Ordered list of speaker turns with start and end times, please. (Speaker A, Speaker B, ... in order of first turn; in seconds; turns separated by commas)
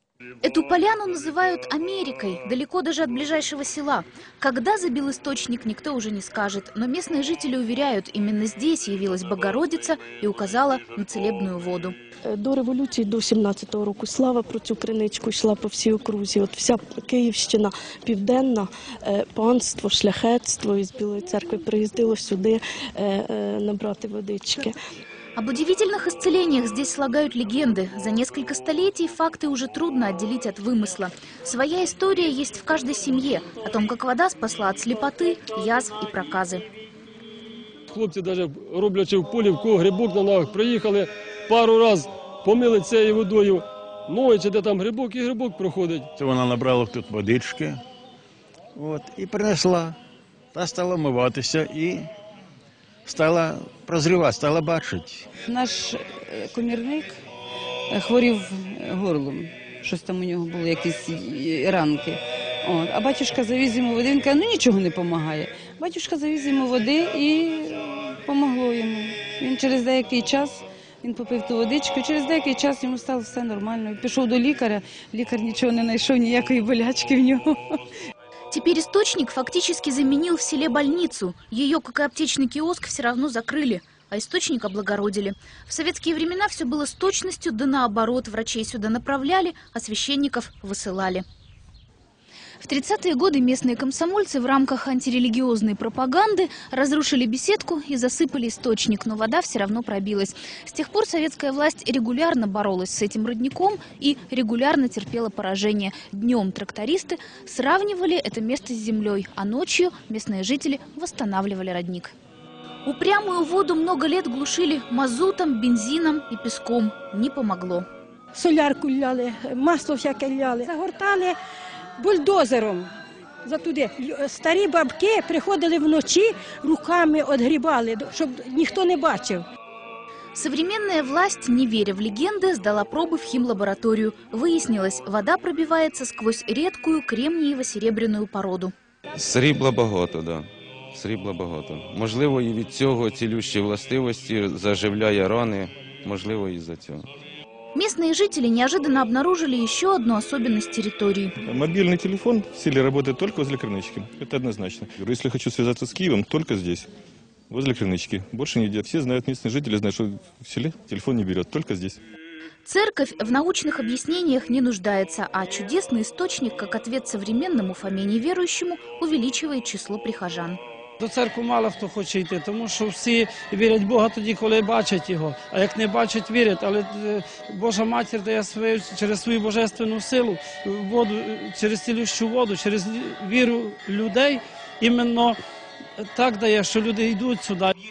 Speaker A: 0.4-11.9, Speaker B: 12.3-24.7, Speaker A: 25.4-36.6, Speaker C: 37.9-46.0, Speaker D: 46.2-47.8, Speaker D: 48.8-50.0, Speaker D: 50.5-52.1, Speaker D: 53.0-55.2, Speaker E: 55.5-57.2, Speaker E: 57.9-77.6, Speaker A: 78.5-91.2, Speaker A: 92.6-112.1, Speaker A: 112.8-117.8, Speaker F: 118.3-121.3, Speaker F: 122.0-122.9, Speaker F: 123.4-129.4, Speaker A: 130.3-138.7, Speaker G: 139.2-147.1, Speaker A: 147.7-151.3, Speaker H: 151.4-156.9, Speaker H: 157.5-162.0, Speaker A: 162.6-170.6, Speaker I: 171.0-185.4, Speaker I: 186.0-187.7